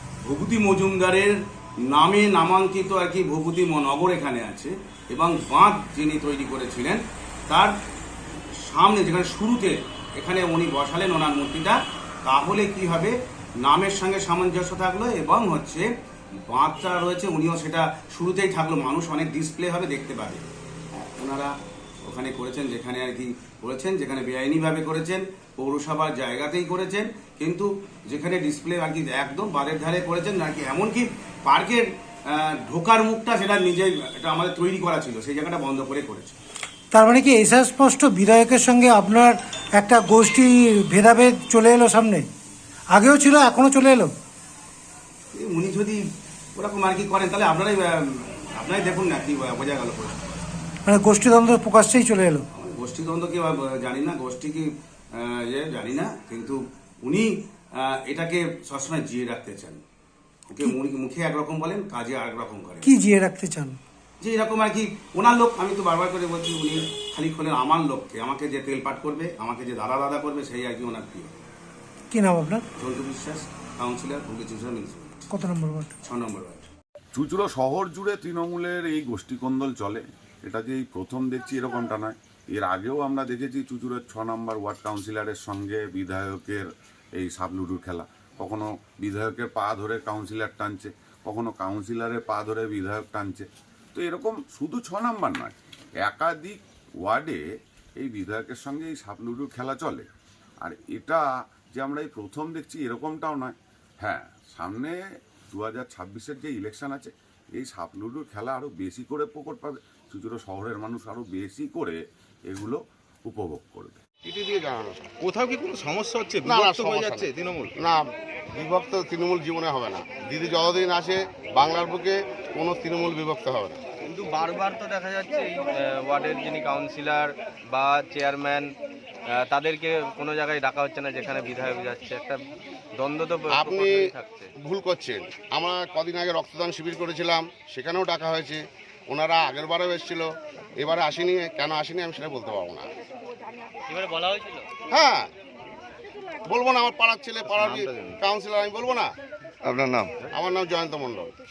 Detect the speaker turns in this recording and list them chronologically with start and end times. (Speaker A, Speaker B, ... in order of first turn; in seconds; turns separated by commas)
Speaker A: 0.2-7.7, Speaker A: 8.7-15.9, Speaker A: 16.5-21.5, Speaker A: 22.1-36.4, Speaker B: 36.9-42.3, Speaker B: 42.9-44.1, Speaker A: 45.3-46.0, Speaker A: 46.5-50.4, Speaker B: 50.9-52.5, Speaker A: 52.5-59.8, Speaker A: 60.5-62.9, Speaker B: 62.8-63.8, Speaker A: 64.2-71.3, Speaker B: 72.1-72.6, Speaker A: 72.8-75.1, Speaker B: 75.3-75.9, Speaker A: 76.0-76.7, Speaker C: 77.1-97.4, Speaker C: 98.0-100.1, Speaker C: 100.6-101.2, Speaker C: 101.7-105.0, Speaker C: 105.5-114.0, Speaker D: 114.3-115.1, Speaker E: 115.3-117.7, Speaker D: 116.4-123.8, Speaker F: 124.1-128.7, Speaker F: 129.3-132.4, Speaker F: 133.0-134.5, Speaker D: 133.5-142.9, Speaker F: 143.9-144.6, Speaker D: 144.9-145.3, Speaker D: 146.4-149.1, Speaker D: 149.7-151.3